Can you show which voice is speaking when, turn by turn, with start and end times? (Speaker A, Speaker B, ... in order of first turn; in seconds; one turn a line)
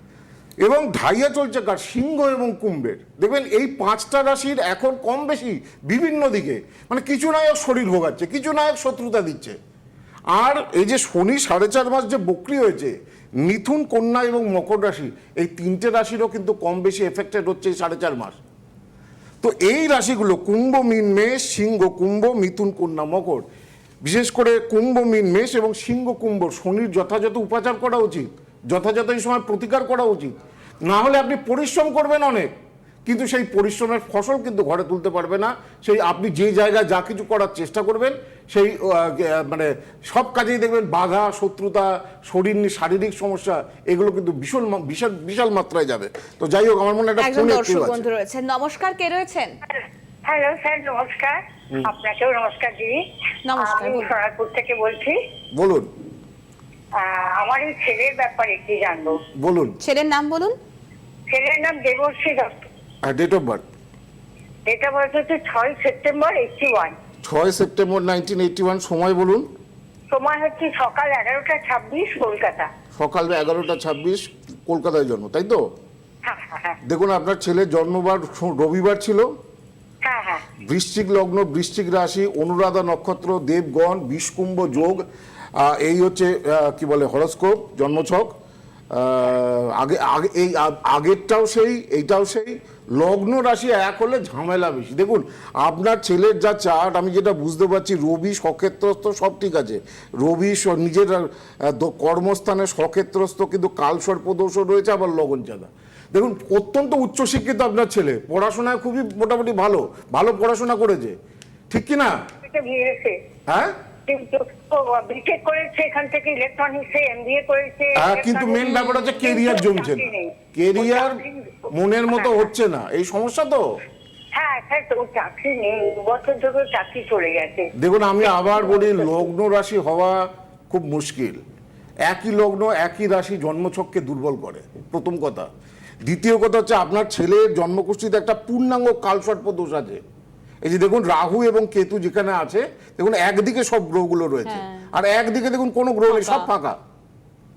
Speaker A: 0.6-9.6
Speaker A: 10.3-18.4
Speaker A: 19.4-23.4
Speaker A: 24.0-32.5
Speaker A: 33.0-48.0
Speaker B: 47.2-49.5
Speaker C: 49.7-53.0
Speaker B: 53.4-54.1
Speaker C: 53.6-55.2
Speaker A: 55.5-55.9
Speaker C: 57.0-59.2
Speaker A: 59.3-59.8
Speaker B: 59.8-60.6
Speaker C: 61.3-62.6
Speaker A: 63.0-63.6
Speaker C: 64.7-66.9
Speaker A: 67.2-69.5
Speaker C: 70.1-72.7
Speaker A: 72.9-75.6
Speaker C: 76.2-76.8
Speaker A: 76.8-79.3
Speaker C: 80.0-80.4
Speaker A: 80.6-85.0
Speaker A: 85.5-88.3
Speaker A: 88.9-111.2
Speaker A: 111.7-112.2
Speaker C: 112.4-113.2
Speaker A: 113.5-113.8
Speaker C: 114.1-122.5
Speaker A: 118.0-123.6
Speaker B: 118.6-119.1
Speaker C: 124.3-127.7
Speaker A: 127.8-131.4
Speaker C: 128.3-129.2
Speaker A: 132.1-135.5
Speaker A: 136.0-140.0
Speaker A: 140.6-146.8
Speaker B: 144.4-144.9
Speaker B: 146.1-146.5